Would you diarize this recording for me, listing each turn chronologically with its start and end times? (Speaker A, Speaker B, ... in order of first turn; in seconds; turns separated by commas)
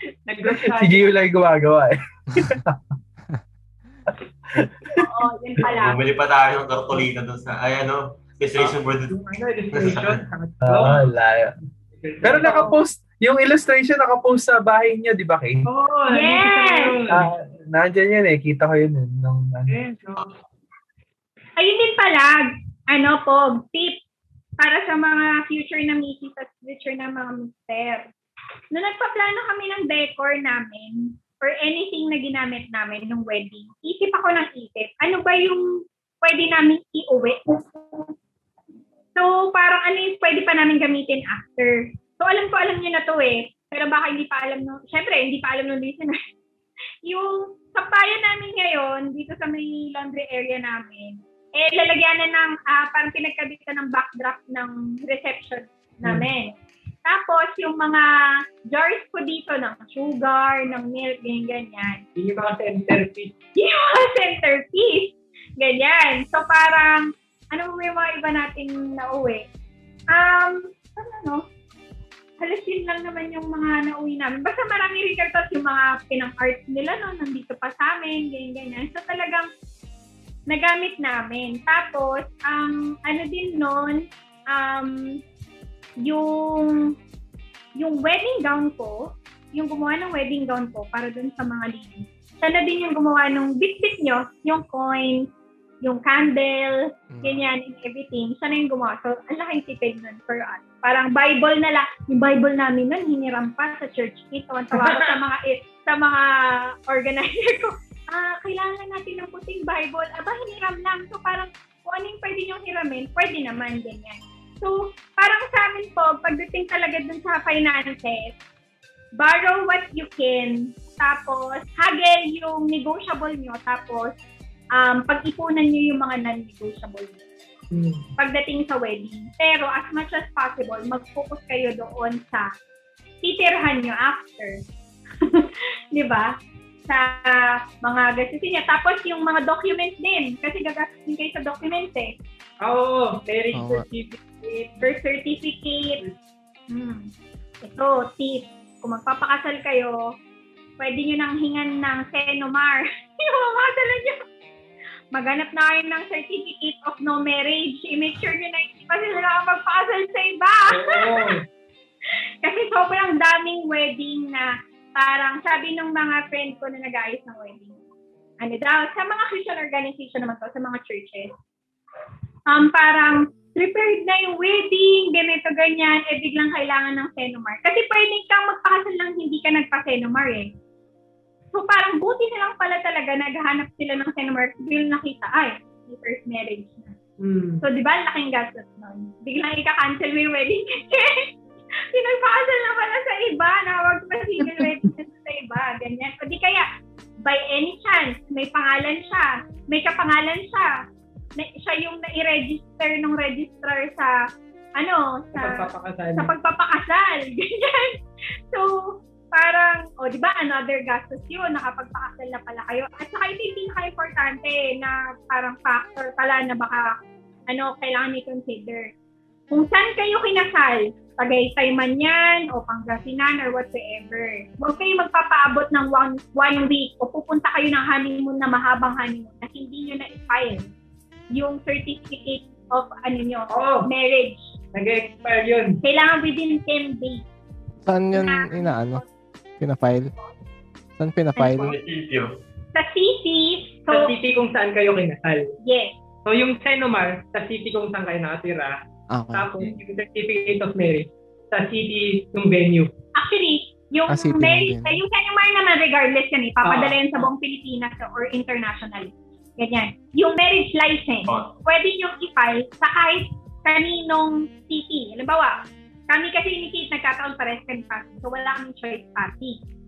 Speaker A: 0.3-1.2, Speaker B: 0.6-2.8, Speaker B: 4.5-5.0, Speaker C: 5.0-6.0, Speaker D: 5.7-9.2, Speaker A: 8.6-11.0, Speaker D: 9.7-10.2, Speaker B: 10.6-11.5, Speaker A: 12.0-12.8, Speaker B: 12.2-15.7, Speaker A: 15.7-17.3, Speaker C: 16.1-16.9, Speaker B: 17.1-19.7, Speaker A: 19.7-20.3, Speaker C: 21.6-24.0, Speaker C: 24.6-28.1, Speaker C: 28.7-35.7, Speaker C: 36.2-37.7, Speaker C: 39.1-46.2, Speaker C: 47.0-56.5, Speaker C: 57.0-58.0, Speaker C: 58.7-62.0, Speaker A: 62.2-63.3, Speaker C: 63.5-69.4, Speaker C: 70.1-71.4, Speaker C: 72.4-79.5, Speaker C: 80.5-85.2, Speaker C: 86.0-86.9, Speaker C: 87.8-95.3, Speaker C: 95.8-106.3, Speaker E: 97.1-97.4, Speaker A: 104.8-105.1, Speaker C: 106.9-118.3, Speaker C: 119.2-124.2, Speaker C: 124.8-127.2, Speaker A: 127.7-128.0, Speaker C: 128.2-132.5, Speaker C: 133.2-134.6, Speaker C: 135.2-136.3, Speaker C: 136.9-142.1, Speaker A: 142.6-144.2, Speaker E: 143.5-143.8, Speaker C: 144.5-146.0, Speaker C: 146.7-147.1, Speaker C: 147.6-150.0, Speaker C: 150.8-154.2, Speaker C: 155.1-161.3, Speaker A: 160.7-161.4, Speaker C: 162.4-167.8, Speaker C: 168.4-171.3, Speaker C: 172.5-180.5, Speaker C: 181.5-186.9, Speaker A: 187.2-187.6, Speaker C: 187.6-191.3, Speaker C: 191.9-196.7, Speaker C: 197.2-200.7, Speaker C: 201.4-204.1, Speaker C: 204.8-205.6, Speaker A: 205.3-206.3, Speaker C: 206.2-208.0, Speaker C: 209.3-216.9, Speaker C: 217.5-218.9, Speaker C: 219.5-230.7, Speaker C: 231.3-234.5, Speaker A: 233.5-233.8, Speaker A: 234.7-235.8, Speaker C: 235.8-237.2, Speaker E: 237.8-239.0, Speaker C: 238.1-239.0, Speaker E: 239.6-240.1, Speaker E: 241.0-241.7, Speaker C: 241.3-241.7, Speaker D: 241.6-242.3, Speaker C: 242.7-244.1, Speaker A: 243.9-245.5, Speaker C: 245.6-245.9, Speaker A: 246.2-248.8, Speaker E: 249.1-249.5, Speaker A: 249.3-252.9, Speaker C: 253.2-265.6, Speaker E: 254.1-255.0, Speaker A: 256.6-257.3, Speaker D: 261.2-261.5, Speaker C: 266.1-269.6